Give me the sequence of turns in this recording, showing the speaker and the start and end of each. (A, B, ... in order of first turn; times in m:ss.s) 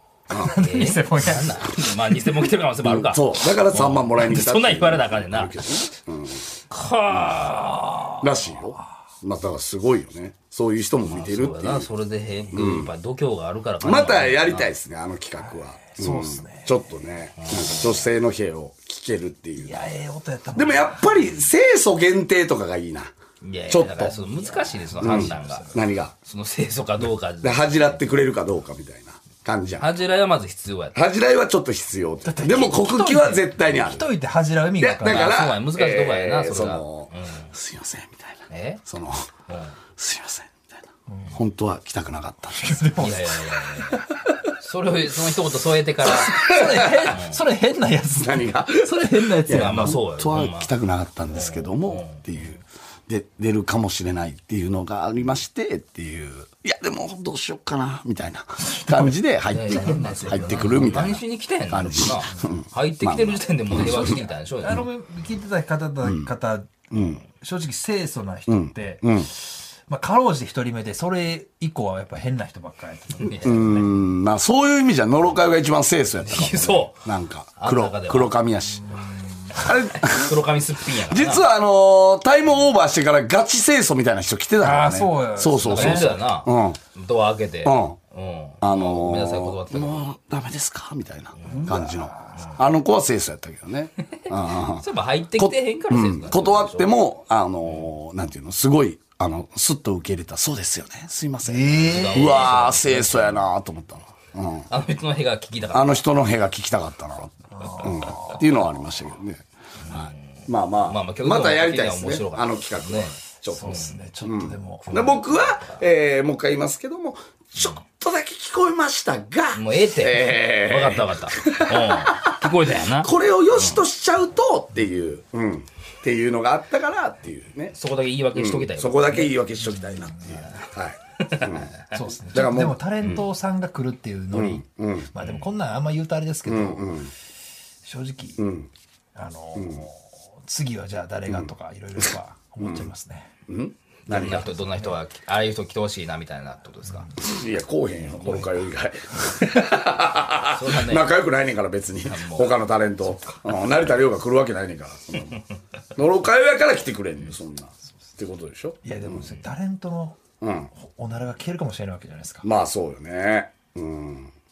0:00.3-0:01.8 A
0:00.3-0:05.7 B
0:02.8-0:06.4 C
0:06.7-0:08.2 B
0:07.1-0:07.5 C
0:08.2-0:11.9 C
0:11.0-0:14.7 B
0:12.5-0:12.9 C
0:13.8-0:19.8 C
0:15.4-0:16.8 A
0:17.4-0:17.9 B
0:19.6-0:21.3 A
0:20.6-0:23.1 C
0:23.4-0:28.0 B
0:23.7-0:24.2 C
0:24.2-0:25.8 A
0:25.0-0:26.1 C
0:27.4-0:29.9 C
0:29.8-0:31.0 B
0:30.9-0:34.1 C
0:32.2-0:35.4 A
0:34.8-0:39.3 C
0:35.0-0:37.5 B
0:38.5-0:38.8 B
0:39.5-0:39.7 B
0:40.0-0:43.1 C
0:41.1-0:41.4 A
0:42.5-0:44.0 A
0:43.0-0:47.4 B
0:46.1-0:50.0 A
0:46.3-0:47.0 C
0:48.2-1:04.3 C
0:49.5-0:50.7 B
0:51.3-0:52.2 B
0:59.5-1:04.9 B
0:59.8-1:00.9 A
1:03.8-1:13.8 A
1:06.0-1:06.3 C
1:06.9-1:07.2 C
1:08.5-1:09.3 C
1:13.2-1:13.8 B
1:13.4-1:20.4 C
1:16.2-1:18.4 B
1:18.9-1:19.4 A
1:19.9-1:21.5 B
1:21.1-1:26.8 C
1:24.6-1:26.2 A
1:25.7-1:30.1 B
1:27.6-1:28.0 C
1:28.6-1:44.7 C
1:31.4-1:32.5 A
1:34.6-1:37.0 B
1:41.4-1:42.5 A
1:41.7-1:43.3 B
1:44.7-1:46.0 B
1:45.7-2:07.8 C
1:47.5-1:48.4 A
1:49.9-1:50.1 B
1:50.8-1:54.0 B
1:53.5-1:55.2 A
1:54.8-1:55.7 B
1:59.5-2:03.8 B
2:07.7-2:09.3 B
2:08.3-2:11.7 C
2:09.8-2:10.4 A
2:11.2-2:11.8 B
2:11.9-2:17.1 A
2:12.3-2:12.8 C
2:14.3-2:15.1 C
2:16.4-2:17.1 C
2:17.8-2:18.4 A
2:18.4-2:18.7 C
2:19.2-2:23.3 A
2:19.6-2:19.9 C
2:21.3-2:22.9 C
2:23.5-2:24.5 C
2:24.1-2:27.2 B
2:24.7-2:24.9 A
2:27.2-2:35.4 C
2:28.1-2:28.5 A
2:30.5-2:31.1 B
2:32.1-2:32.6 B
2:33.1-2:33.5 A
2:36.0-2:39.2 C
2:38.8-2:40.2 A
2:40.4-2:40.7 C
2:40.7-2:42.5 A
2:42.4-2:44.3 C